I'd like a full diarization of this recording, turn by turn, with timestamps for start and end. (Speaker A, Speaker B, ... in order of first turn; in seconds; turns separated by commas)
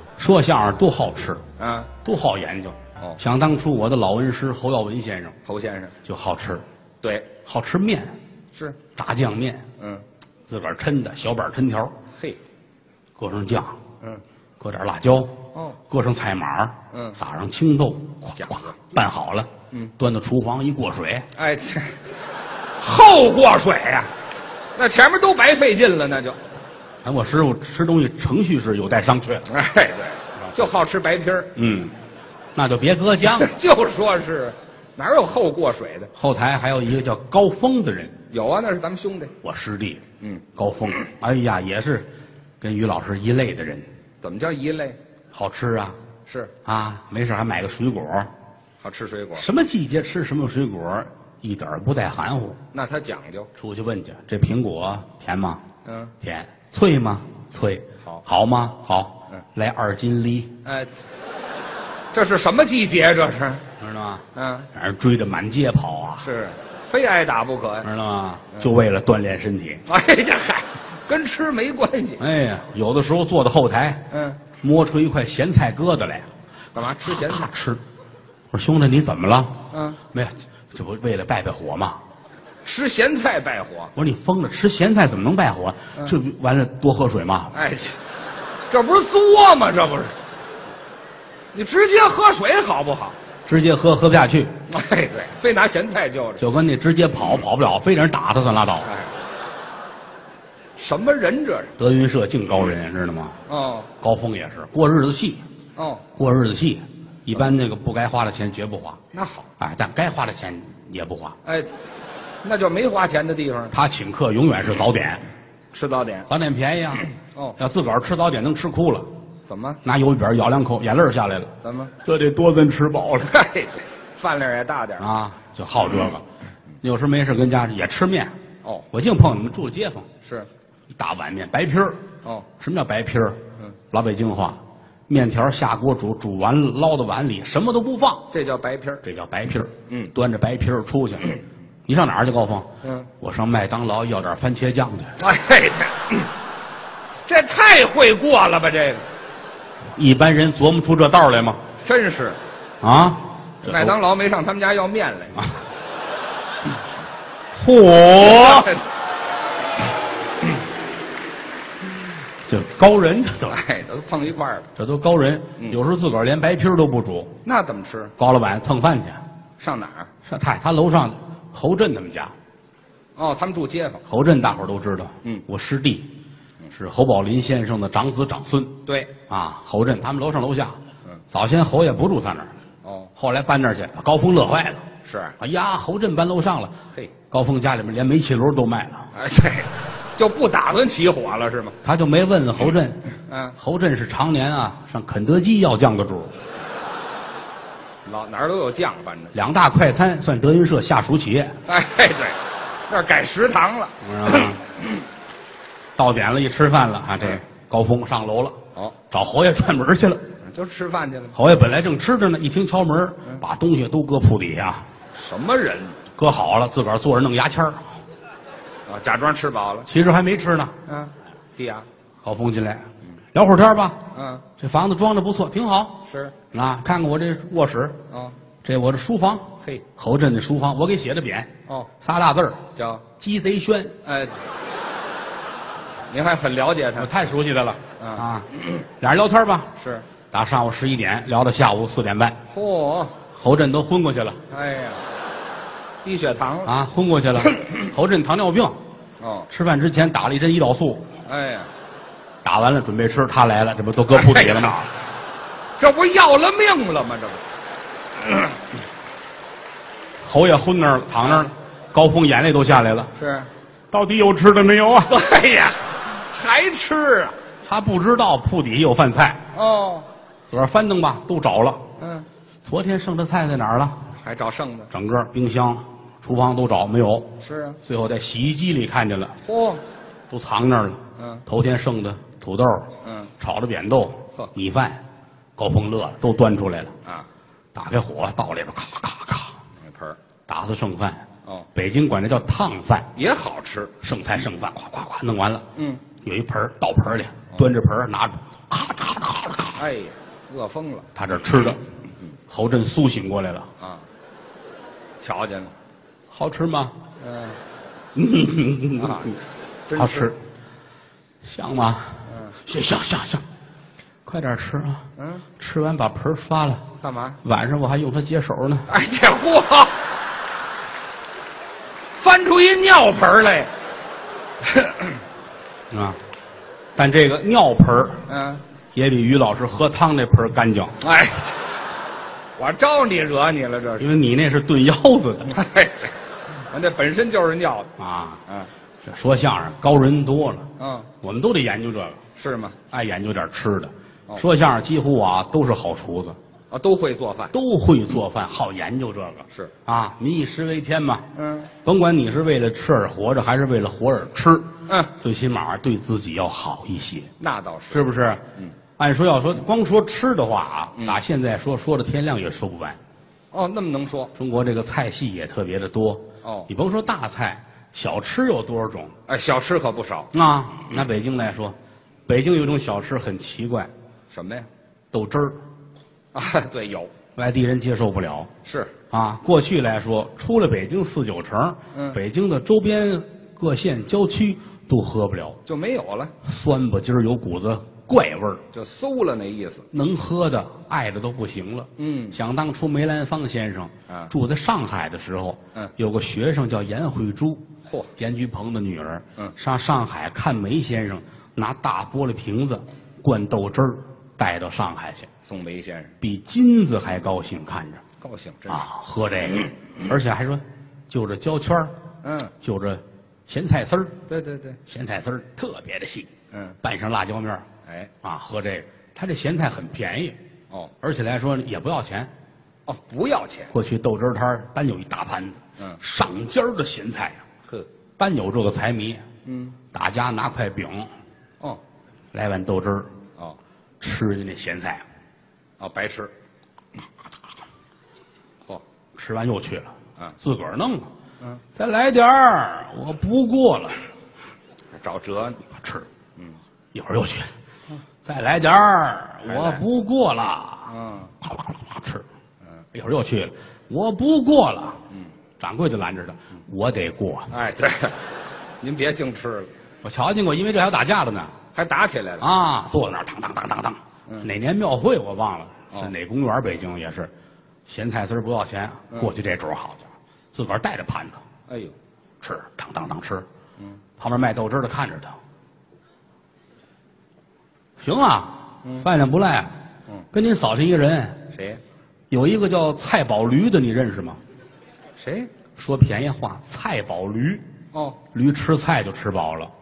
Speaker A: 0.2-1.4, Speaker B: 1.6-1.9, Speaker A: 2.0-5.4, Speaker B: 5.5-6.0, Speaker A: 6.0-6.7, Speaker B: 7.0-7.3, Speaker A: 7.5-8.2, Speaker B: 8.5-8.8, Speaker A: 9.0-9.7, Speaker B: 9.8-10.1, Speaker A: 10.5-11.9, Speaker B: 12.1-12.4, Speaker A: 13.2-13.8, Speaker A: 14.6-15.4, Speaker B: 15.5-15.8, Speaker A: 15.9-21.3, Speaker B: 16.9-17.2, Speaker B: 18.4-18.7, Speaker B: 21.4-22.0, Speaker B: 22.8-24.1, Speaker B: 24.8-26.4, Speaker A: 27.0-29.5, Speaker B: 29.5-31.5, Speaker A: 31.6-31.9, Speaker A: 32.5-33.6, Speaker B: 33.3-36.1, Speaker A: 36.1-38.1, Speaker B: 38.3-39.3, Speaker A: 39.4-40.0, Speaker B: 40.2-40.5, Speaker A: 40.6-42.1, Speaker A: 42.6-43.9, Speaker B: 44.2-45.0, Speaker A: 45.3-46.0, Speaker B: 46.3-46.5, Speaker A: 46.6-48.3, Speaker B: 48.8-49.5, Speaker A: 49.4-52.6, Speaker B: 52.7-53.5, Speaker A: 53.6-55.6, Speaker B: 55.9-56.1, Speaker A: 56.2-60.5, Speaker B: 60.6-61.0, Speaker B: 62.1-63.6, Speaker A: 63.8-66.3, Speaker B: 64.3-64.7, Speaker B: 66.2-67.9, Speaker A: 67.8-69.8, Speaker B: 69.9-72.2, Speaker A: 72.2-76.3, Speaker B: 74.1-74.4, Speaker B: 76.7-77.5, Speaker A: 77.0-77.8, Speaker A: 78.5-82.0, Speaker B: 79.7-80.0, Speaker B: 82.6-83.9, Speaker A: 84.0-87.5, Speaker B: 87.5-88.0, Speaker B: 88.7-90.2, Speaker B: 91.5-93.2, Speaker A: 93.5-94.5, Speaker B: 94.7-96.4, Speaker A: 96.4-98.9, Speaker B: 98.9-99.1, Speaker B: 100.8-101.8, Speaker A: 101.8-103.4, Speaker B: 103.5-103.9, Speaker A: 104.0-105.4, Speaker B: 105.8-106.1, Speaker A: 106.2-109.0, Speaker B: 109.1-109.5, Speaker A: 109.6-111.4, Speaker B: 111.4-111.7, Speaker B: 112.4-113.8, Speaker A: 113.7-115.2, Speaker B: 115.7-116.3, Speaker A: 116.3-119.1, Speaker B: 117.3-117.6, Speaker B: 119.5-119.8, Speaker A: 119.8-121.5, Speaker B: 121.6-121.9, Speaker A: 122.0-123.4, Speaker B: 123.3-125.1, Speaker A: 125.0-126.2, Speaker A: 126.8-128.3, Speaker A: 128.9-130.1, Speaker B: 130.2-130.5, Speaker A: 131.0-132.1, Speaker A: 132.6-133.4, Speaker A: 133.9-138.3, Speaker B: 138.3-139.0, Speaker A: 139.0-142.7, Speaker B: 142.8-143.1, Speaker A: 143.2-145.2, Speaker B: 145.2-146.3, Speaker B: 147.3-149.1, Speaker A: 150.0-151.6, Speaker B: 151.8-152.4, Speaker A: 152.8-154.0, Speaker B: 153.7-155.5, Speaker A: 157.5-158.8, Speaker B: 158.2-158.8, Speaker A: 162.4-163.6, Speaker B: 163.5-164.7, Speaker A: 164.8-167.3, Speaker B: 167.4-168.1, Speaker A: 168.2-169.2, Speaker B: 169.6-170.1, Speaker A: 170.2-172.3, Speaker B: 173.2-174.0, Speaker A: 174.1-176.1, Speaker A: 176.7-178.8, Speaker B: 178.9-179.2, Speaker A: 179.3-180.8, Speaker A: 181.3-182.5, Speaker B: 182.8-183.1, Speaker A: 183.2-184.8, Speaker B: 185.0-185.4, Speaker A: 185.4-186.8, Speaker A: 187.3-189.1, Speaker B: 189.1-191.8, Speaker A: 191.8-193.1, Speaker B: 193.3-193.6, Speaker A: 193.6-196.3, Speaker B: 198.1-199.3, Speaker A: 199.3-201.6, Speaker B: 201.7-204.6, Speaker A: 204.0-204.6, Speaker A: 206.0-208.6, Speaker A: 209.1-210.2, Speaker B: 210.4-211.4, Speaker A: 211.3-214.9, Speaker B: 215.1-216.0, Speaker A: 216.2-218.0, Speaker B: 218.9-219.9, Speaker A: 219.9-220.7, Speaker B: 220.9-221.9, Speaker A: 222.2-224.0, Speaker B: 224.1-224.4, Speaker A: 224.6-226.0, Speaker B: 226.1-226.3, Speaker A: 226.5-228.0, Speaker B: 228.1-228.4, Speaker A: 228.6-232.6, Speaker B: 231.7-231.9, Speaker B: 232.7-233.1, Speaker A: 233.2-234.0, Speaker B: 234.0-234.4, Speaker B: 236.1-237.2, Speaker A: 237.0-239.7, Speaker B: 238.0-238.3, Speaker B: 239.8-240.1, Speaker A: 240.3-242.4, Speaker B: 242.5-243.2, Speaker A: 243.3-244.4, Speaker B: 244.5-245.1, Speaker B: 246.0-246.7, Speaker A: 246.7-248.8, Speaker B: 249.2-249.5, Speaker A: 249.5-251.1, Speaker B: 251.3-251.7, Speaker A: 252.4-254.9, Speaker B: 254.1-254.9, Speaker B: 255.8-257.4, Speaker A: 260.2-263.1, Speaker B: 263.2-263.5, Speaker A: 263.9-265.2, Speaker B: 265.1-267.4, Speaker A: 267.6-269.4, Speaker B: 269.5-270.1, Speaker A: 270.5-271.8, Speaker B: 272.0-272.3, Speaker A: 272.6-274.1, Speaker B: 274.2-274.9, Speaker A: 274.9-279.4, Speaker B: 277.4-277.8, Speaker B: 279.4-279.8, Speaker A: 280.3-285.0, Speaker B: 281.2-281.4, Speaker B: 283.0-283.3, Speaker A: 285.6-286.9, Speaker A: 287.7-289.6, Speaker B: 289.8-290.2, Speaker A: 290.5-293.1, Speaker B: 293.1-293.9, Speaker A: 294.0-295.7, Speaker B: 295.8-296.0, Speaker A: 296.2-299.8, Speaker B: 299.8-301.1, Speaker A: 301.1-301.8, Speaker A: 302.5-303.7, Speaker B: 303.8-304.1, Speaker B: 305.2-305.7, Speaker A: 306.3-307.0, Speaker B: 307.2-307.6, Speaker A: 308.1-309.4, Speaker B: 309.0-310.3, Speaker A: 309.9-310.4, Speaker A: 311.4-313.5, Speaker B: 312.3-312.6, Speaker A: 314.3-315.1, Speaker B: 315.2-315.5, Speaker A: 315.6-316.9, Speaker B: 317.0-317.4, Speaker A: 317.4-318.9, Speaker B: 318.9-320.0, Speaker B: 322.2-323.7, Speaker B: 324.7-325.1, Speaker A: 325.9-326.2, Speaker A: 327.0-328.2, Speaker B: 328.3-328.6, Speaker A: 328.9-331.0, Speaker B: 331.0-331.6, Speaker B: 332.6-334.1, Speaker A: 334.0-335.6, Speaker B: 335.5-337.9, Speaker A: 338.0-338.4, Speaker A: 339.0-340.7, Speaker B: 340.8-341.1, Speaker A: 341.2-342.2, Speaker B: 342.4-342.8, Speaker A: 342.9-346.4, Speaker B: 346.7-347.6, Speaker A: 347.5-351.3, Speaker B: 351.4-351.7, Speaker A: 351.9-357.3, Speaker B: 354.9-355.1, Speaker B: 357.4-358.1, Speaker A: 357.9-358.4, Speaker A: 359.0-363.0, Speaker B: 361.0-361.2, Speaker B: 363.5-364.3, Speaker A: 364.4-369.1, Speaker B: 366.4-366.7, Speaker B: 369.3-370.3, Speaker A: 370.3-373.9, Speaker B: 374.3-374.7, Speaker A: 375.1-375.6, Speaker B: 376.3-377.1, Speaker A: 377.4-378.5, Speaker B: 378.6-378.9, Speaker A: 379.1-385.6, Speaker B: 381.9-382.2, Speaker B: 385.6-386.3, Speaker A: 386.4-388.6, Speaker B: 388.7-389.9, Speaker A: 389.9-397.7, Speaker B: 392.0-392.4, Speaker B: 397.9-398.1, Speaker A: 398.2-405.3, Speaker B: 405.4-406.1, Speaker A: 406.2-408.0, Speaker B: 408.2-408.9, Speaker A: 408.7-411.9, Speaker B: 412.2-412.5, Speaker A: 412.6-414.2, Speaker B: 414.3-414.8, Speaker A: 414.9-416.3, Speaker B: 416.5-416.8, Speaker A: 416.8-417.7, Speaker B: 417.9-418.1, Speaker A: 418.2-420.4, Speaker A: 421.0-422.3, Speaker B: 422.9-423.7, Speaker A: 423.7-427.4, Speaker A: 428.2-429.2, Speaker B: 429.4-429.8, Speaker A: 429.9-431.1, Speaker A: 432.3-433.1, Speaker A: 434.0-435.1, Speaker B: 435.8-436.3, Speaker A: 439.2-441.1, Speaker A: 441.8-444.1, Speaker B: 444.9-445.6, Speaker A: 445.7-446.1, Speaker A: 446.9-447.5, Speaker A: 448.2-450.9, Speaker B: 449.5-449.8, Speaker B: 450.9-451.3, Speaker A: 451.4-452.2, Speaker A: 452.9-455.0, Speaker A: 455.6-457.5, Speaker B: 457.5-458.2, Speaker B: 458.8-459.7, Speaker A: 460.0-461.5, Speaker B: 461.7-462.5, Speaker A: 462.4-467.3, Speaker A: 467.9-471.4, Speaker B: 471.7-471.9, Speaker A: 472.4-473.5, Speaker A: 474.2-475.4, Speaker A: 478.0-479.8, Speaker A: 480.3-481.4, Speaker B: 481.5-481.8, Speaker A: 482.3-484.4, Speaker B: 485.2-485.5, Speaker A: 485.8-487.6, Speaker B: 487.9-488.2, Speaker A: 488.3-489.7